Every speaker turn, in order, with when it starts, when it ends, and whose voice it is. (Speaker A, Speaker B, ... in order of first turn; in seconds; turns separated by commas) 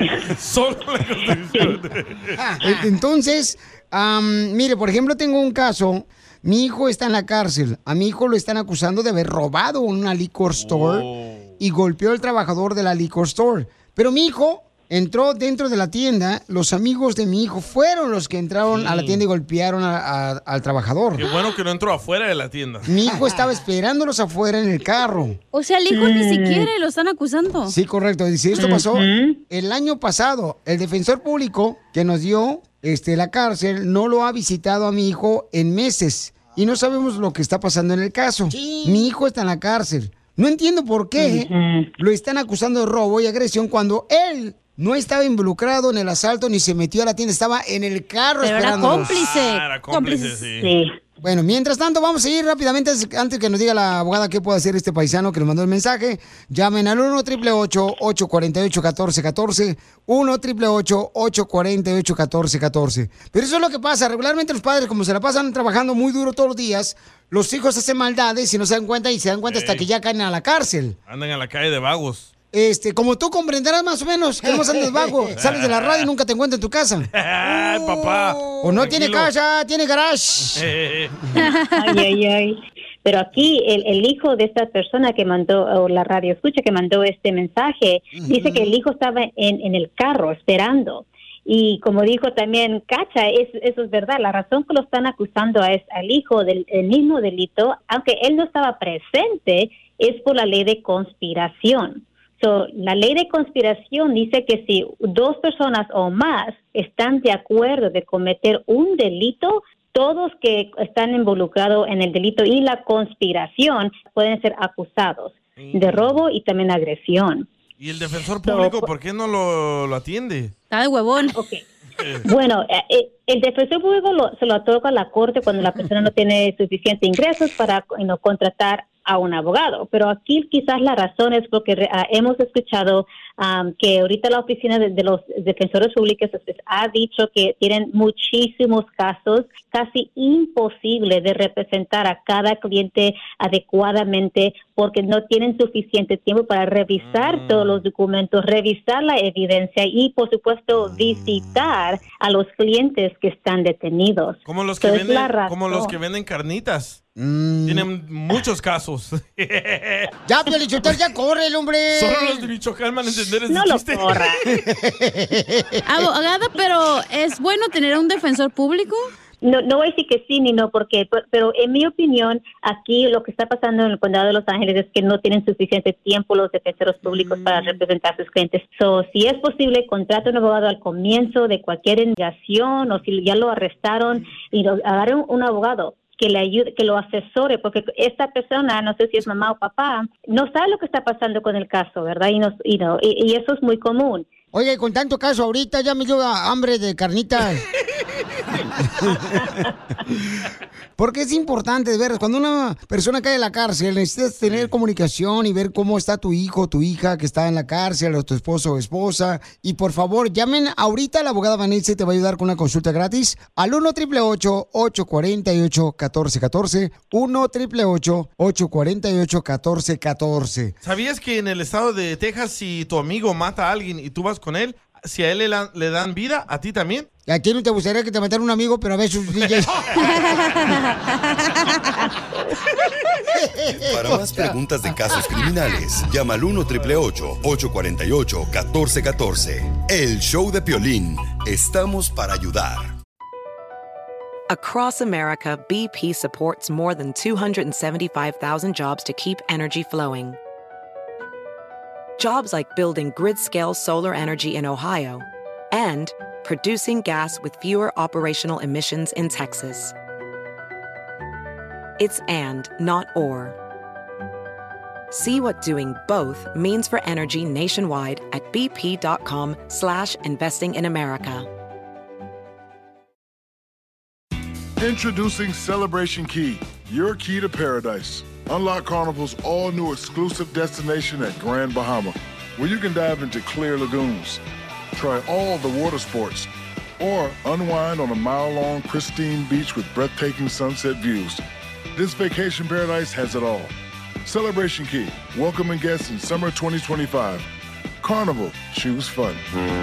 Speaker A: 0.3-2.4, Speaker B: 2.4-11.1, Speaker A: 10.6-11.5, Speaker B: 11.6-21.3, Speaker A: 18.7-19.2, Speaker A: 21.1-23.1, Speaker B: 22.9-25.4, Speaker C: 25.5-27.7, Speaker D: 25.9-26.7, Speaker B: 27.7-49.2, Speaker D: 28.5-29.4, Speaker D: 41.2-41.9, Speaker C: 48.4-50.4, Speaker A: 48.8-50.7, Speaker D: 50.6-50.9, Speaker B: 51.2-71.0, Speaker A: 69.5-69.8, Speaker A: 71.1-72.3, Speaker B: 72.5-77.1, Speaker A: 75.3-76.1, Speaker A: 77.1-79.3, Speaker B: 78.6-80.7, Speaker A: 80.5-81.2, Speaker C: 81.3-81.9, Speaker D: 81.7-117.5, Speaker B: 88.1-88.7, Speaker A: 115.6-116.2, Speaker A: 117.8-120.5, Speaker D: 118.4-118.8, Speaker C: 120.7-121.4, Speaker D: 121.3-121.6, Speaker D: 122.2-155.9, Speaker A: 147.0-147.8, Speaker A: 154.4-157.0, Speaker B: 157.2-157.9, Speaker A: 157.6-160.1, Speaker B: 160.2-162.5, Speaker A: 161.9-164.4, Speaker D: 163.5-164.4, Speaker B: 164.5-165.8, Speaker C: 165.8-169.1, Speaker D: 169.4-194.2, Speaker B: 194.5-197.6, Speaker B: 198.9-199.5, Speaker B: 201.0-220.7, Speaker A: 220.8-227.1, Speaker B: 227.3-230.1, Speaker C: 230.2-231.7, Speaker B: 233.3-235.4, Speaker E: 233.8-242.9, Speaker F: 244.5-250.4, Speaker F: 252.2-259.9, Speaker F: 262.0-263.6, Speaker F: 265.1-271.5, Speaker G: 274.8-284.4, Speaker G: 284.9-286.5, Speaker G: 287.0-291.4, Speaker G: 291.9-293.7, Speaker G: 294.2-297.5, Speaker G: 298.0-299.4